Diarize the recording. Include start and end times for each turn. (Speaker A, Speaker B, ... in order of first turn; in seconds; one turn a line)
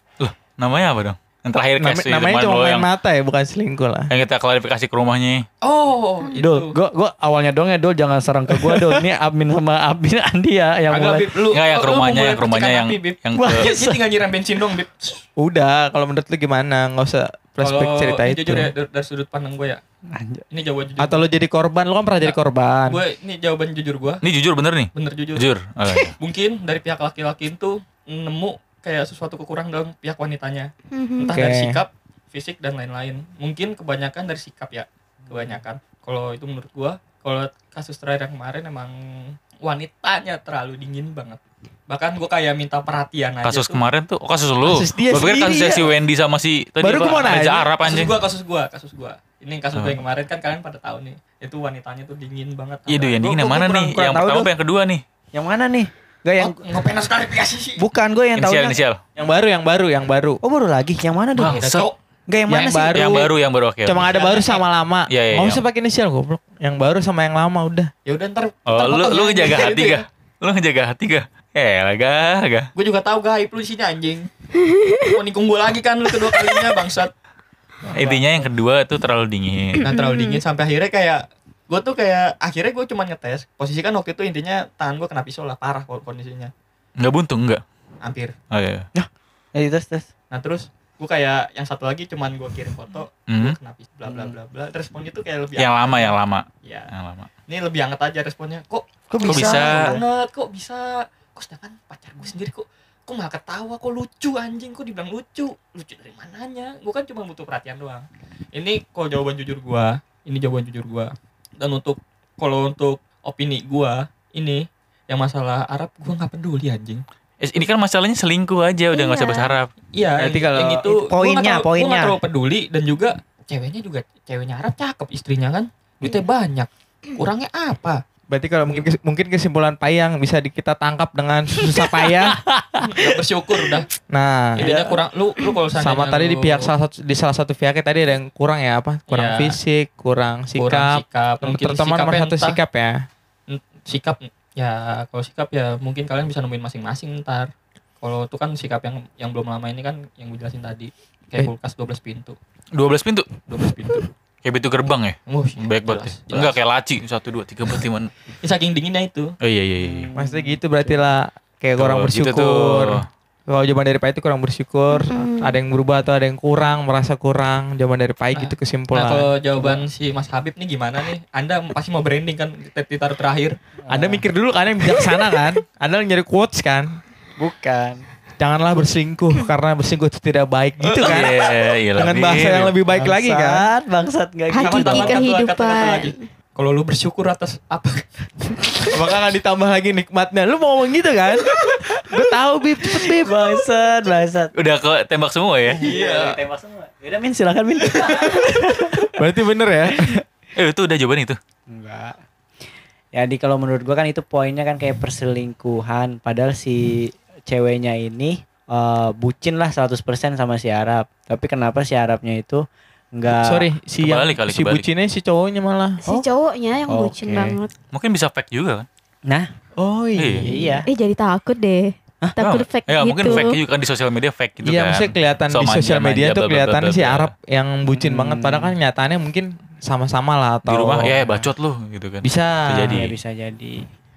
Speaker A: 0.2-2.9
Speaker B: 1.8-4.1
Speaker A: 4.1-5.4
Speaker C: 5.6-6.8
Speaker D: 6.4-11.4
Speaker C: 10.9-15.2
Speaker A: 11.5-13.7
Speaker D: 13.4-14.0
Speaker B: 15.4-18.7
Speaker C: 17.6-19.8
Speaker D: 20.1-20.4
Speaker C: 20.5-21.2
Speaker B: 21.0-23.0
Speaker C: 22.2-24.2
Speaker A: 24.2-26.1
Speaker C: 24.9-25.5
Speaker C: 26.2-43.8
Speaker E: 30.9-31.4
Speaker B: 31.3-31.8
Speaker D: 35.3-35.6
Speaker A: 43.4-48.2
Speaker B: 44.7-46.0
Speaker B: 46.8-47.7
Speaker C: 47.2-54.0
Speaker A: 49.8-50.0
Speaker A: 52.9-55.0
Speaker D: 53.9-54.5
Speaker D: 55.3-56.6
Speaker C: 56.4-57.8
Speaker D: 57.8-58.8
Speaker A: 58.4-59.0
Speaker B: 59.2-60.4
Speaker D: 60.4-61.6
Speaker A: 61.4-61.9
Speaker C: 61.4-62.0
Speaker D: 62.3-63.3
Speaker B: 62.5-63.3
Speaker A: 62.9-64.1
Speaker B: 63.9-67.9
Speaker C: 64.0-64.6
Speaker A: 65.1-65.6
Speaker C: 68.1-70.0
Speaker A: 68.7-72.7
Speaker C: 72.8-74.3
Speaker E: 74.7-75.1
Speaker C: 75.1-77.1
Speaker A: 77.9-79.9
Speaker D: 78.0-78.5
Speaker E: 79.8-80.4
Speaker C: 79.8-86.5
Speaker A: 87.0-87.6
Speaker C: 88.0-88.3
Speaker A: 88.5-88.9
Speaker D: 88.9-90.1
Speaker C: 90.3-96.9
Speaker A: 93.3-93.6
Speaker D: 94.1-94.3
Speaker A: 95.6-97.3
Speaker C: 97.5-117.0
Speaker D: 99.1-100.0
Speaker A: 99.2-99.9
Speaker A: 117.4-119.7
Speaker E: 118.9-119.5
Speaker C: 120.0-128.0
Speaker B: 120.2-120.8
Speaker D: 120.8-122.2
Speaker B: 128.3-132.4
Speaker D: 131.8-133.2
Speaker C: 132.8-133.9
Speaker B: 134.1-134.8
Speaker C: 134.6-136.7
Speaker D: 134.6-134.9
Speaker B: 135.8-143.0
Speaker C: 139.1-139.6
Speaker C: 140.6-142.6
Speaker C: 143.5-147.5
Speaker C: 148.0-152.4
Speaker A: 152.8-153.4
Speaker C: 153.5-154.1
Speaker A: 154.4-158.1
Speaker C: 155.3-156.6
Speaker C: 158.4-159.3
Speaker A: 159.4-160.1
Speaker D: 159.8-161.1
Speaker B: 160.2-169.3
Speaker A: 161.8-163.1
Speaker E: 164.9-165.6
Speaker C: 168.3-173.6
Speaker D: 173.9-174.2
Speaker B: 173.9-176.9
Speaker D: 177.4-178.0
Speaker B: 178.4-181.4
Speaker C: 180.9-181.3
Speaker A: 181.0-182.7
Speaker B: 182.0-183.7
Speaker D: 182.9-185.2
Speaker E: 184.5-186.2
Speaker C: 184.6-188.9
Speaker B: 188.9-193.6
Speaker D: 191.8-192.1
Speaker D: 192.9-194.5
Speaker A: 194.6-196.0
Speaker D: 195.8-199.2
Speaker C: 195.8-196.4
Speaker B: 199.1-200.2
Speaker A: 200.6-201.4
Speaker D: 201.7-202.2
Speaker D: 203.1-213.7
Speaker B: 213.3-216.0
Speaker A: 214.0-214.8
Speaker E: 216.1-217.7
Speaker D: 216.9-217.6
Speaker A: 217.9-218.9
Speaker B: 219.8-220.8
Speaker A: 220.2-220.5
Speaker D: 220.4-220.9
Speaker E: 220.9-223.6
Speaker A: 222.4-227.3
Speaker B: 224.6-231.2
Speaker D: 227.9-228.7
Speaker A: 230.7-233.2
Speaker D: 231.2-231.5
Speaker B: 232.2-233.1
Speaker D: 232.9-233.9